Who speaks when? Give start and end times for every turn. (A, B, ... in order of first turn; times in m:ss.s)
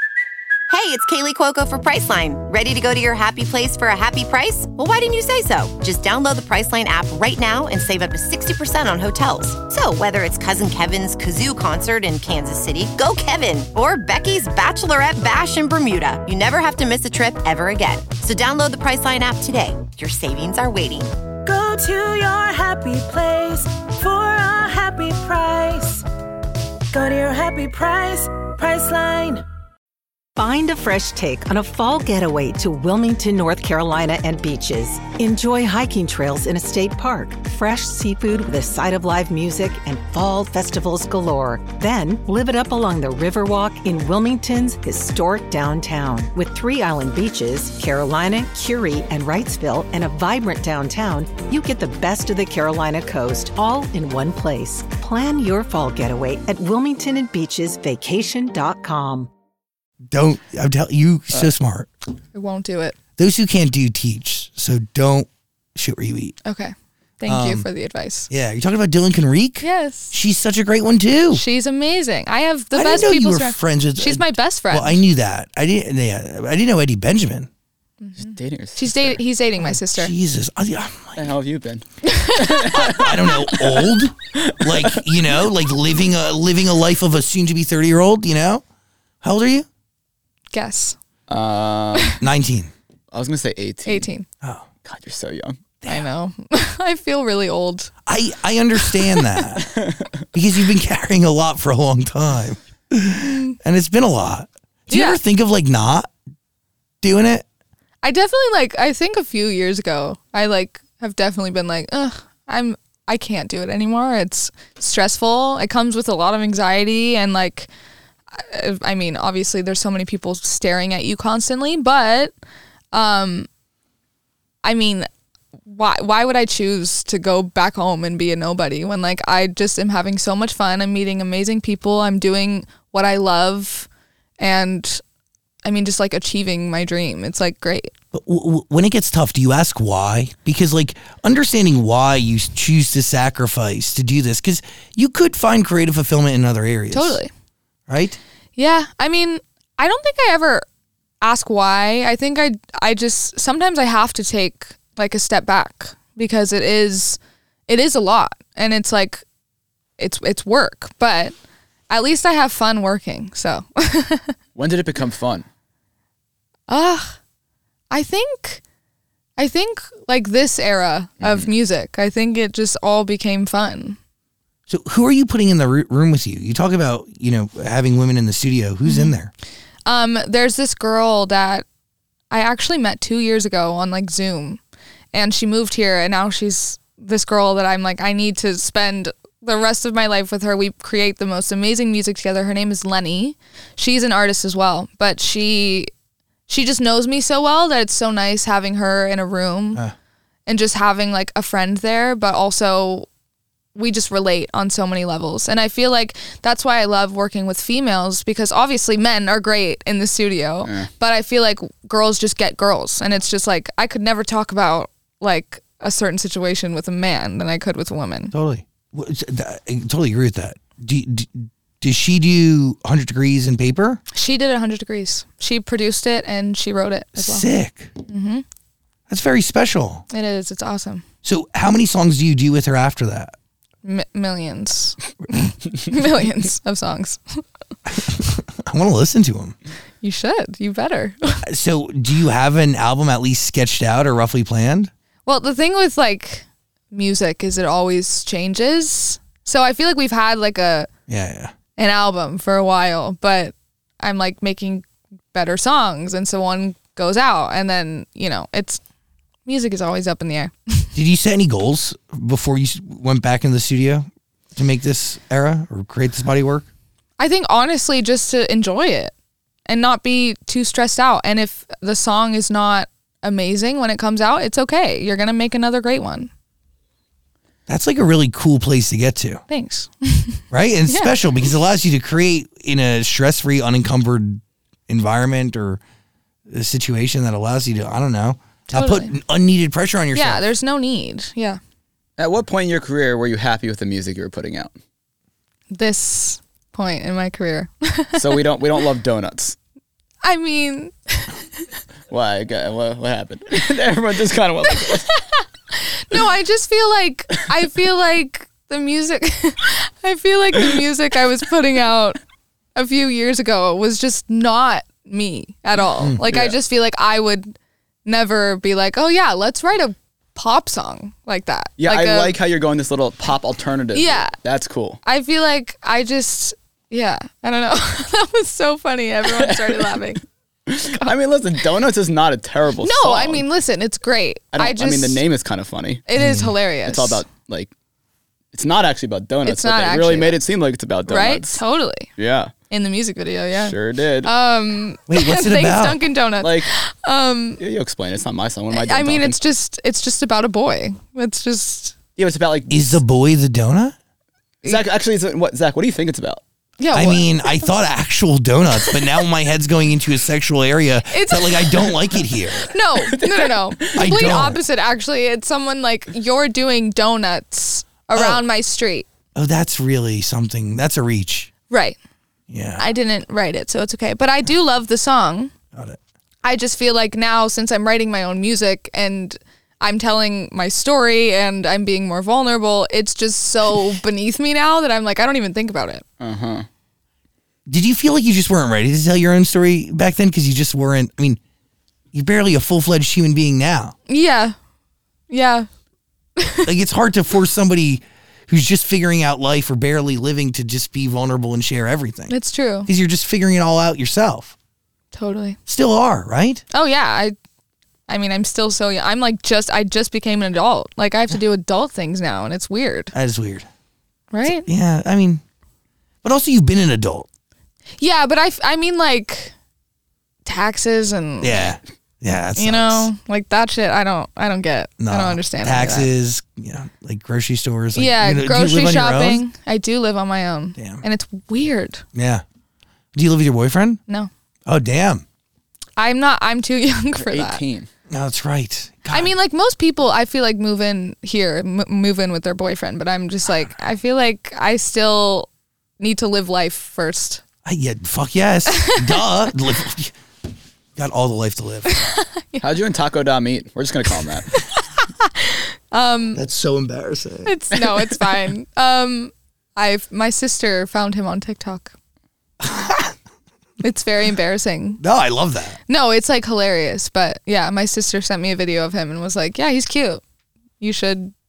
0:00.7-0:21.1 A
0:21.4-0:26.0 B
0:26.9-0:29.4 B
0:30.4-0:59.3 C
1:00.1-1:01.9 D
1:02.3-1:03.0 E
1:03.2-1:06.4 D
1:06.4-1:08.3 E
1:07.3-1:07.7 D
1:08.3-1:11.4 D
1:09.6-1:10.1 E
1:11.3-1:15.0 E
1:12.7-1:17.5 D
1:18.0-1:20.1 E
1:18.2-1:19.2 F
1:19.6-1:21.3 D
1:21.2-1:25.1 F
1:22.0-1:23.1 E
1:22.7-1:28.6 D
1:29.2-1:29.7 D
1:30.5-1:31.0 E
1:31.3-1:32.2 F
1:32.2-1:32.7 D
1:33.1-1:34.1 F
1:33.9-1:34.3 E
1:34.8-1:35.6 F
1:35.9-1:37.9 E
1:38.1-1:39.7 D
1:38.8-1:39.4 E
1:39.6-1:40.1 F
1:40.3-1:46.1 D
1:44.9-1:45.2 E
1:47.0-1:47.4 D
1:48.0-1:57.7 E
1:58.3-2:02.3 E
2:02.9-2:03.5 E
2:04.6-2:05.1 E
2:05.7-2:13.9 E
2:14.4-2:15.0 E
2:15.6-2:17.9 E
2:18.1-2:27.2 D
2:26.9-2:27.3 E
2:27.9-2:28.2 D
2:28.6-2:30.6 E
2:31.2-2:39.2 E
2:40.0-2:41.3 E
2:41.9-2:44.4 E
2:44.6-2:45.5 F
2:46.7-2:47.2 E
2:47.9-2:48.6 E
2:49.4-2:54.0 E
2:51.2-2:51.5 F
2:54.7-2:59.3 D
2:58.9-2:59.1 E
2:59.9-3:01.6 E
3:02.3-3:04.6 E
3:05.1-3:15.9 E
3:16.5-3:19.8 E
3:20.5-3:23.1 E
3:23.8-3:38.3 E
3:38.3-3:44.0 D
3:44.1-3:47.5 E
3:47.2-3:47.9 D
3:48.1-3:48.4 E
3:49.1-3:50.0 D
3:50.1-3:51.0 E
3:51.2-3:53.4 D
3:53.8-3:57.4 E
3:57.9-3:59.6 D
4:00.0-4:01.4 E
4:01.4-4:04.9 D
4:05.3-4:10.9 E
4:11.1-4:11.5 D
4:11.8-4:18.8 E
4:19.5-4:20.9 E
4:21.0-4:26.7 D
4:27.2-4:29.1 E
4:29.7-4:36.3 E
4:37.7-4:39.4 D
4:39.5-4:41.1 E
4:40.5-4:45.8 D
4:46.5-4:50.4 D
4:48.7-4:49.2 E
4:50.1-4:51.6 E
4:52.2-4:54.7 F
4:55.7-4:58.3 E
4:58.2-4:59.6 F
5:00.2-5:01.4 E
5:02.1-5:05.1 F
5:04.9-5:12.2 E
5:12.8-5:17.6 E
5:16.3-5:16.6 F
5:18.1-5:22.4 E
5:21.8-5:25.0 F
5:23.9-5:24.3 E
5:25.0-5:30.2 E
5:29.2-5:30.1 F
5:30.7-5:33.4 F
5:32.8-5:35.2 E
5:34.5-5:36.1 F
5:36.1-5:37.2 E
5:36.2-5:36.5 D
5:36.8-5:37.7 F
5:38.5-5:41.6 F
5:39.4-5:40.4 E
5:41.1-5:42.1 E
5:42.2-5:42.5 F
5:42.7-5:47.6 E
5:43.6-5:44.3 F
5:45.1-5:46.0 D
5:46.4-5:46.7 F
5:47.6-5:49.4 F
5:48.7-5:52.0 E
5:52.2-5:53.0 F
5:52.7-5:54.0 D
5:54.6-5:56.4 F
5:56.8-5:57.6 E
5:56.9-6:02.7 D
6:01.1-6:01.9 E
6:02.7-6:09.1 E
6:03.1-6:04.1 F
6:04.0-6:04.6 D
6:08.1-6:08.4 D
6:09.4-6:11.5 D
6:11.7-6:12.0 E
6:12.5-6:12.9 D
6:12.8-6:15.5 E
6:16.4-6:26.0 E
6:26.2-6:26.7 F
6:27.7-6:31.4 D
6:32.1-6:34.0 D
6:34.1-6:34.6 E
6:35.3-6:35.7 E
6:36.4-6:36.7 E
6:36.6-6:42.3 D
6:42.3-6:42.9 E
6:42.9-6:44.6 D
6:45.1-6:45.6 E
6:45.7-6:46.6 D
6:46.7-6:47.4 E
6:48.1-6:53.1 E
6:53.1-6:53.7 D
6:54.3-6:54.7 E
6:54.4-6:55.4 D
6:56.2-6:57.3 D
6:58.0-6:59.5 E
7:00.4-7:01.7 E
7:01.4-7:03.1 D
7:02.6-7:06.1 E
7:05.0-7:09.4 D
7:07.9-7:12.0 E
7:10.8-7:11.0 D
7:12.1-7:12.4 D
7:13.1-7:14.0 D
7:14.7-7:15.2 D
7:16.0-7:17.6 E
7:17.2-7:17.9 F
7:18.1-7:19.3 D
7:19.1-7:27.4 E
7:27.6-7:30.2 D
7:28.7-7:29.2 E
7:31.0-7:32.0 D
7:31.9-7:32.6 E
7:32.6-7:34.5 F
7:35.0-7:36.4 E
7:36.3-7:37.6 D
7:37.5-7:41.9 E
7:42.6-7:43.2 D
7:43.8-7:45.0 E
7:45.0-7:45.8 D
7:45.9-7:50.2 E
7:50.8-7:51.3 E